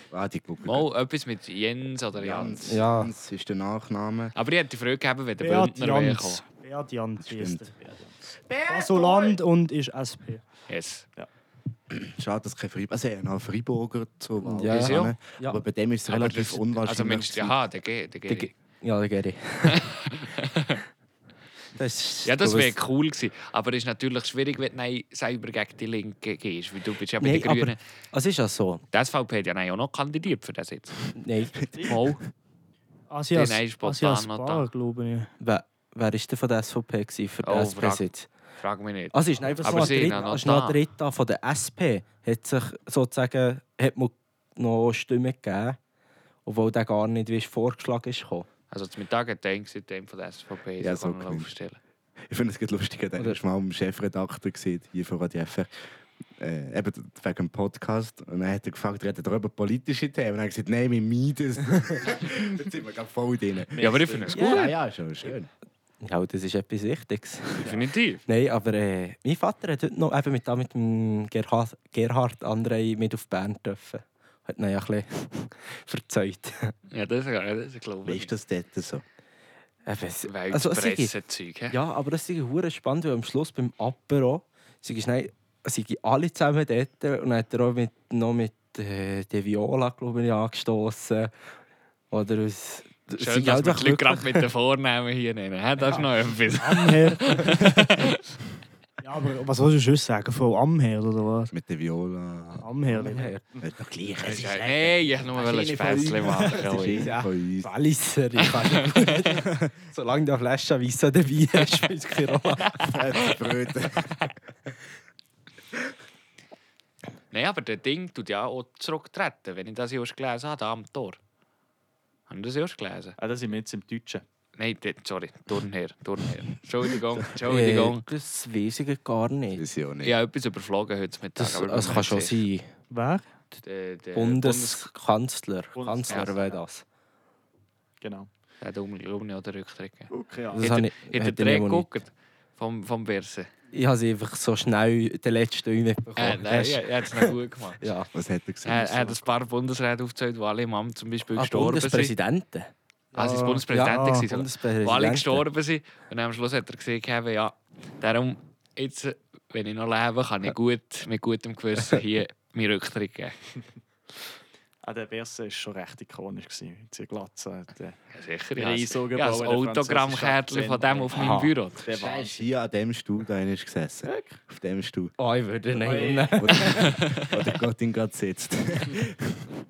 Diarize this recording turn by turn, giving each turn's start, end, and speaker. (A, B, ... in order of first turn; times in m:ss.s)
0:00.1-0:00.9 A
0:00.6-0:02.7 B
0:02.2-0:04.3 A
0:02.7-0:03.1 C
0:04.4-0:06.4 B
0:05.4-0:07.7 D
0:07.2-0:07.7 A
0:07.7-0:08.1 E
0:08.7-0:10.4 D
0:10.7-0:11.1 B
0:11.9-0:17.6 A
0:14.4-0:15.6 C
0:14.7-0:15.1 B
0:16.1-0:18.5 B
0:18.3-0:19.9 C
0:19.7-0:20.8 B
0:21.8-0:22.7 C
0:22.2-0:27.8 B
0:27.2-0:28.8 C
0:28.9-0:31.0 B
0:31.2-0:31.6 C
0:31.6-0:32.0 E
0:31.8-0:32.2 B
0:33.1-0:35.3 D
0:33.3-0:34.7 B
0:35.4-0:38.3 C
0:37.4-0:38.0 B
0:38.6-0:40.8 B
0:39.1-0:45.8 C
0:39.5-0:40.2 E
0:46.5-0:48.5 C
0:48.7-0:51.8 B
0:50.8-0:51.5 A
0:52.3-0:55.7 A
0:56.4-1:03.7 A
1:03.7-1:04.6 E
1:03.8-1:04.7 B
1:04.3-1:05.5 A
1:06.0-1:16.7 C
1:07.6-1:08.2 B
1:16.9-1:18.3 B
1:18.0-1:19.0 A
1:19.9-1:21.1 C
1:20.2-1:21.8 B
1:21.7-1:31.3 C
1:32.1-1:34.5 C
1:33.2-1:38.2 B
1:36.5-1:38.2 D
1:39.0-1:41.5 D
1:41.5-1:47.7 A
1:42.6-1:43.3 D
1:43.0-1:43.4 C
1:44.2-1:47.1 B
1:46.7-1:52.8 C
1:48.4-1:49.2 B
1:52.7-1:53.4 B
1:52.9-1:54.2 A
1:57.3-2:01.2 B
2:02.3-2:03.2 B
2:03.2-2:04.2 E
2:04.6-2:08.1 B
2:07.4-2:09.6 C
2:09.5-2:10.2 A
2:10.0-2:12.4 B
2:11.4-2:12.7 C
2:12.9-2:13.2 D
2:13.7-2:14.5 B
2:14.2-2:16.8 C
2:14.4-2:14.9 E
2:15.8-2:16.6 E
2:16.1-2:16.3 B
2:18.0-2:18.3 E
2:18.6-2:23.5 B
2:20.1-2:20.7 E
2:20.5-2:21.9 C
2:23.7-2:28.1 C
2:26.2-2:27.8 B
2:28.1-2:29.2 A
2:28.6-2:32.2 B
2:31.4-2:32.7 C
2:33.1-2:34.2 D
2:33.2-2:43.4 B
2:33.2-2:35.4 C
2:44.8-2:48.0 E
2:48.1-2:51.8 B
2:48.6-2:52.5 E
2:51.9-2:55.1 A
2:54.0-2:54.4 E
2:55.2-2:57.0 C
2:55.8-2:56.6 E
2:55.8-2:59.4 A
2:56.6-2:57.4 B